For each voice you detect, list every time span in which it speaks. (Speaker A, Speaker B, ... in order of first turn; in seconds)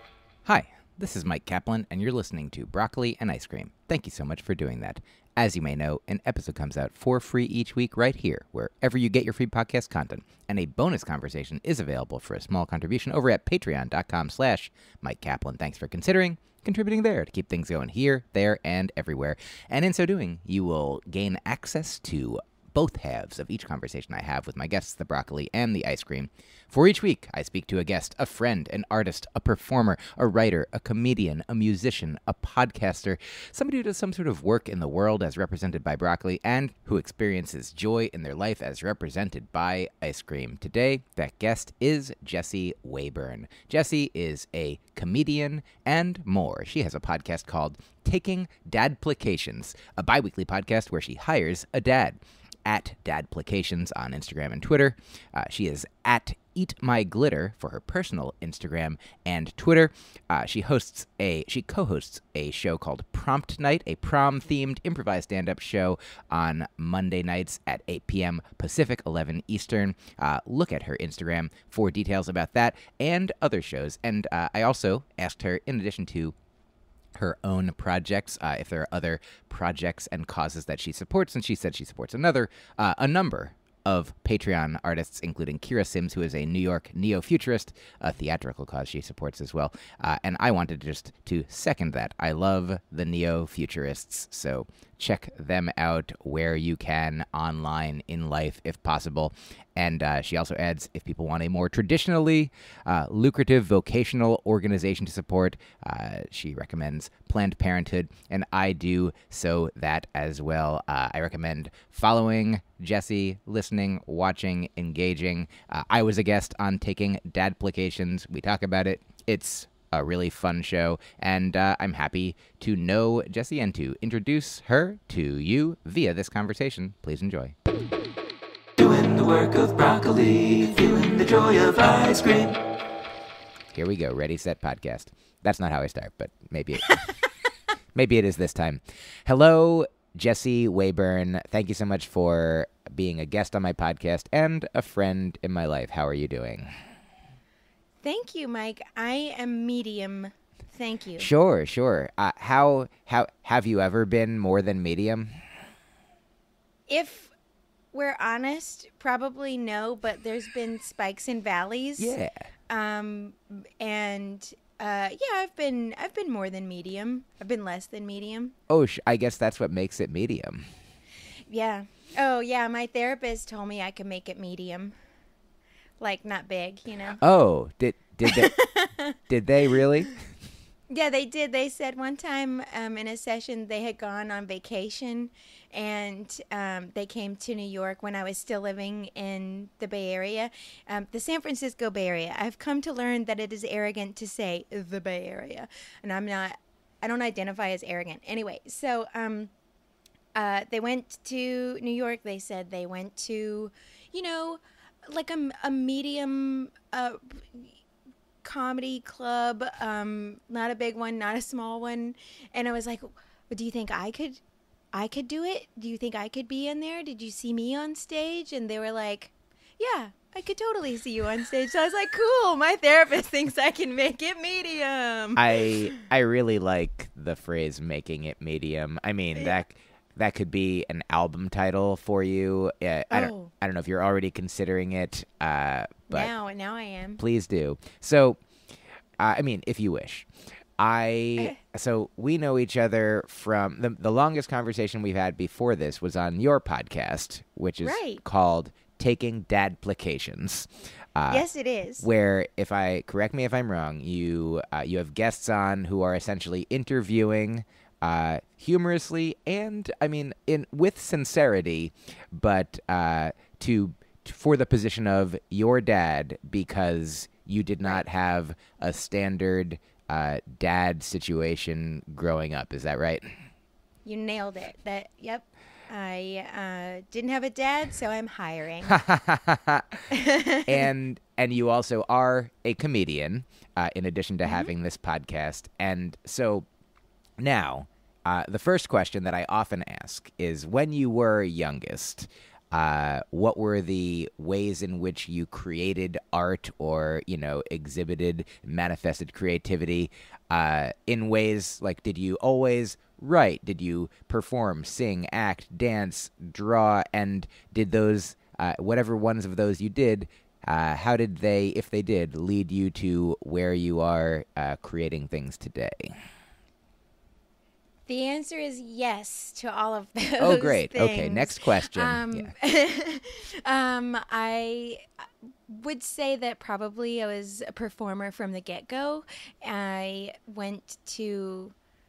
Speaker A: 0.5-76.3, 77.1-127.5, 133.7-137.1, 137.9-146.7, 151.2-155.3, 162.0-162.4, 168.7-170.7, 177.2-178.5, 179.3-180.2, 225.3-236.3, 237.2-238.4, 239.2-251.4, 252.0-273.4, 278.8-280.1, 280.7-286.7, 287.4-316.1, 320.4-322.5
Speaker B: 128.8-132.6
Speaker C: 148.0-151.3, 156.9-157.3, 157.9-162.1, 162.7-168.5, 171.5-174.9, 176.0-177.2, 178.2-179.2, 180.9-199.5, 200.3-207.8, 208.4-214.4, 214.9-226.1, 233.1-233.5, 236.1-237.2, 247.8-248.2, 251.3-252.0, 274.0-279.0, 280.1-280.9, 284.4-284.7, 318.1-325.0, 325.7-331.7